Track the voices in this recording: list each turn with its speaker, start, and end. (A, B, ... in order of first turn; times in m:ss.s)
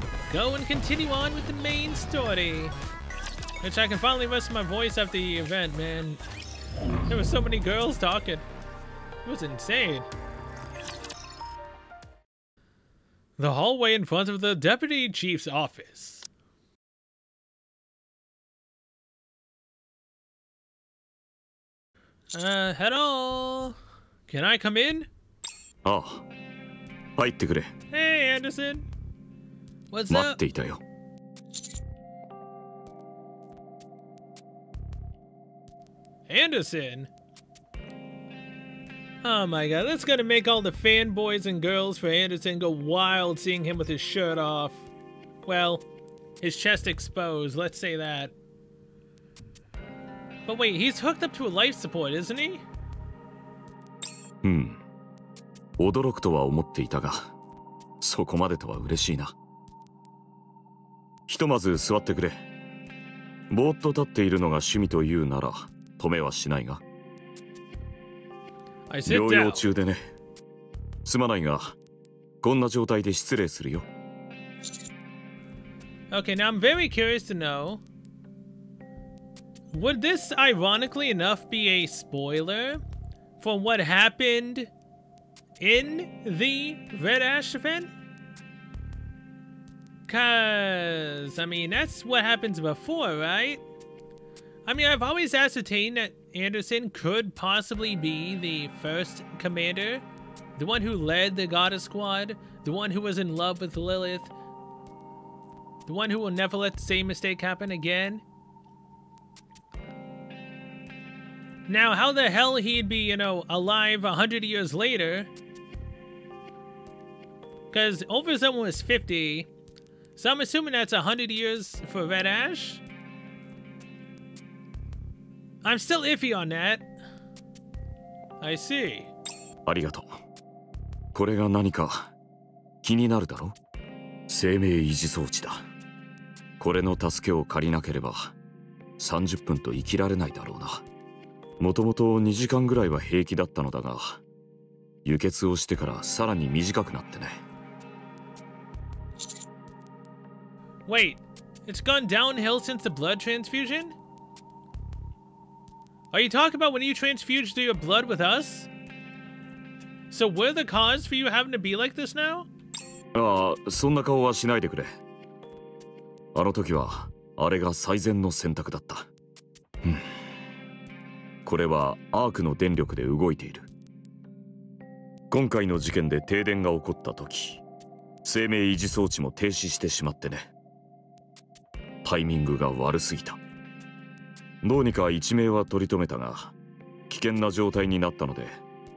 0:00.3-0:02.7 A
0:03.6-0:06.2 A
0:07.1-0:08.4 A
0:09.2-0:10.1 A
0:13.4-0:16.3 A
0:22.3-0:23.8 A
0:24.3-0:25.1 A
0:25.8-0:26.2 B
0:27.2-0:27.7 B
0:27.9-0:28.8 A
0:29.9-0:30.4 A
0:30.1-0:30.8 B
0:36.3-0:37.1 A
0:39.2-0:44.8 A
0:45.4-0:45.8 A
0:46.4-0:48.3 A
0:50.4-0:52.6 A
0:54.4-0:54.8 B
0:55.8-0:57.3 B
0:58.0-0:59.3 B
1:01.3-1:02.4 B
1:03.5-1:06.8 B
1:08.9-1:09.6 A
1:09.0-1:10.0 B
1:11.0-1:11.8 B
1:12.4-1:13.9 B
1:16.1-1:17.8 A
1:19.7-1:22.8 A
1:23.4-1:24.7 A
1:25.6-1:27.9 A
1:30.1-1:33.6 A
1:34.6-1:40.0 A
1:40.6-1:44.3 A
1:45.8-1:48.2 A
1:51.7-1:55.3 A
1:57.7-1:59.5 A
2:00.2-2:02.8 A
2:05.6-2:06.9 A
2:08.4-2:09.1 A
2:09.6-2:10.2 B
2:11.1-2:12.1 B
2:12.8-2:13.5 B
2:14.3-2:15.6 B
2:16.6-2:18.3 B
2:19.0-2:20.8 B
2:21.6-2:24.2 B
2:25.0-2:27.4 B
2:30.9-2:33.9 A
2:36.1-2:38.7 A
2:40.1-2:42.5 A
2:43.1-2:44.9 B
2:46.3-2:49.1 B
2:49.8-2:50.1 B
2:51.4-2:53.7 B
2:55.3-2:57.6 B
2:58.2-3:00.5 B
3:02.0-3:03.4 B
3:04.6-3:06.5 B
3:07.1-3:08.6 B